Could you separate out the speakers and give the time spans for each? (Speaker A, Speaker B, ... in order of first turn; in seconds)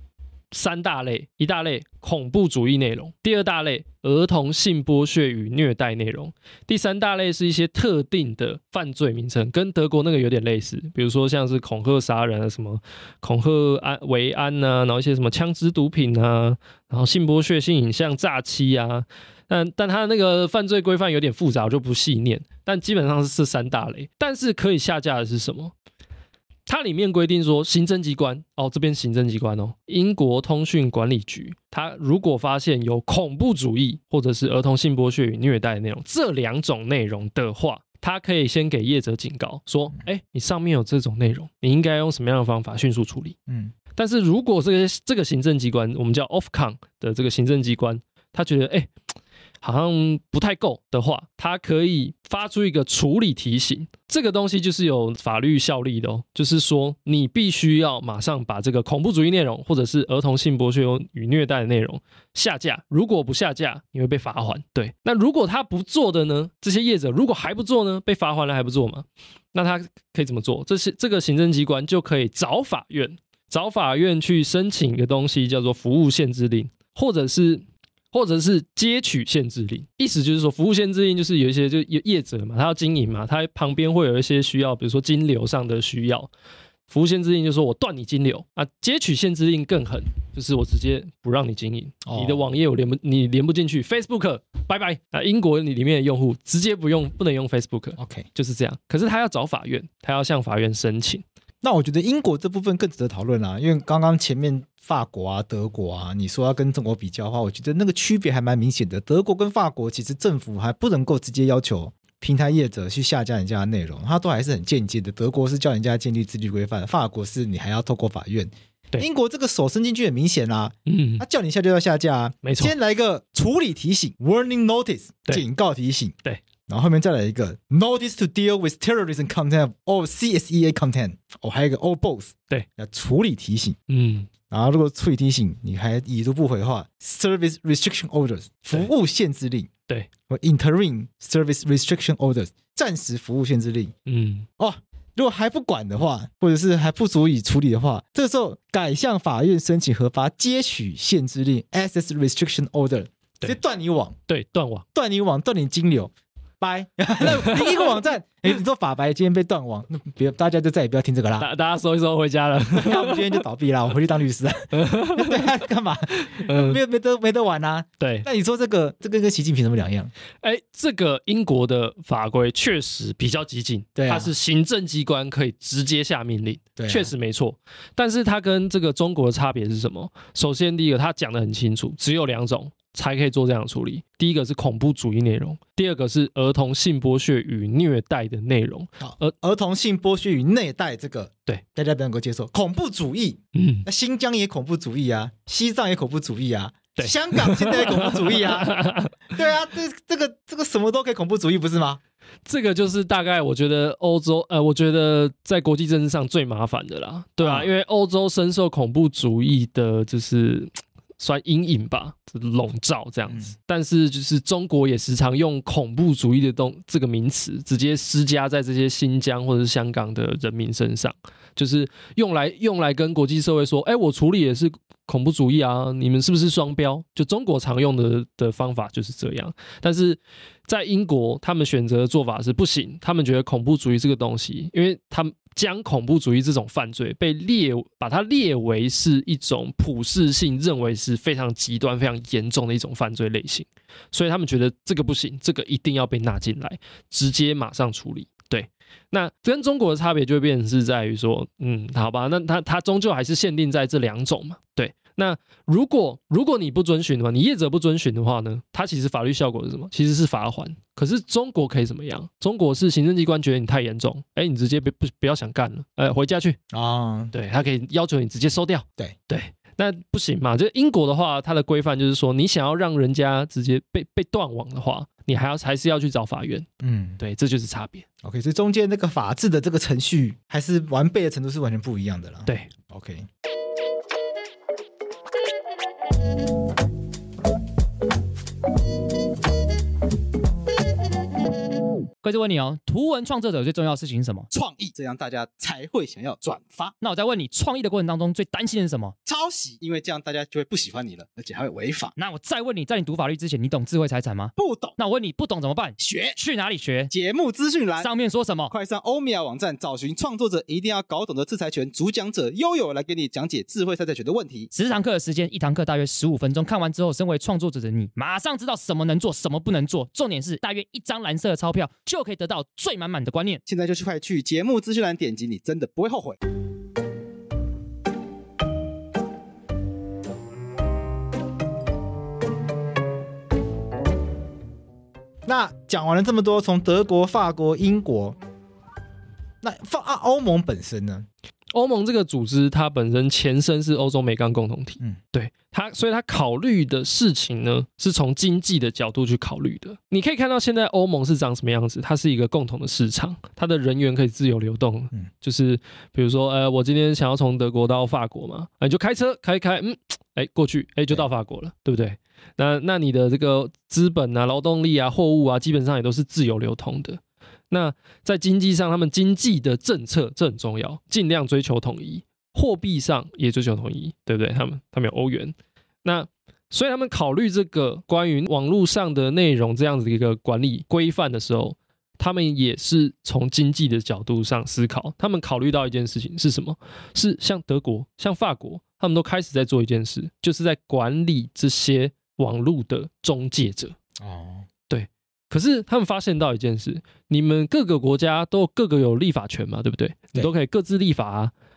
Speaker A: 0.5-25.7, 26.7-43.4, 43.9-48.9, 49.6-86.3, 86.9-101.2, 120.9-121.2, 122.4-122.7, 133.9-134.3, 144.1-144.5, 154.3-154.8, 157.3-157.8, 161.4-163.4, 164.7-165.5, 166.3-166.8, 168.0-168.3, 170.4-189.3, 193.6-193.9, 197.0-199.1, 202.5-266.6, 267.3-276.7, 277.2-278.1, 341.7-394.0, 394.9-401.5
Speaker B: 43.5-43.7, 92.1-92.4, 98.0-98.3, 101.6-126.2, 126.7-133.8, 134.5-139.7, 140.3-143.9, 144.6-154.2, 154.9-161.5, 162.7-170.1, 174.0-174.3, 176.8-177.1, 189.0-202.0, 207.4-207.7, 266.7-267.3, 276.8-277.2, 278.2-283.3, 294.5-297.0, 299.2-302.2, 304.6-305.0, 306.0-306.4, 307.1-308.1, 308.7-314.7, 323.7-326.4, 335.4-338.4, 339.6-341.3, 394.2-394.7
Speaker C: 292.2-294.5, 297.0-299.1, 302.2-307.1, 308.0-308.7, 314.7-323.6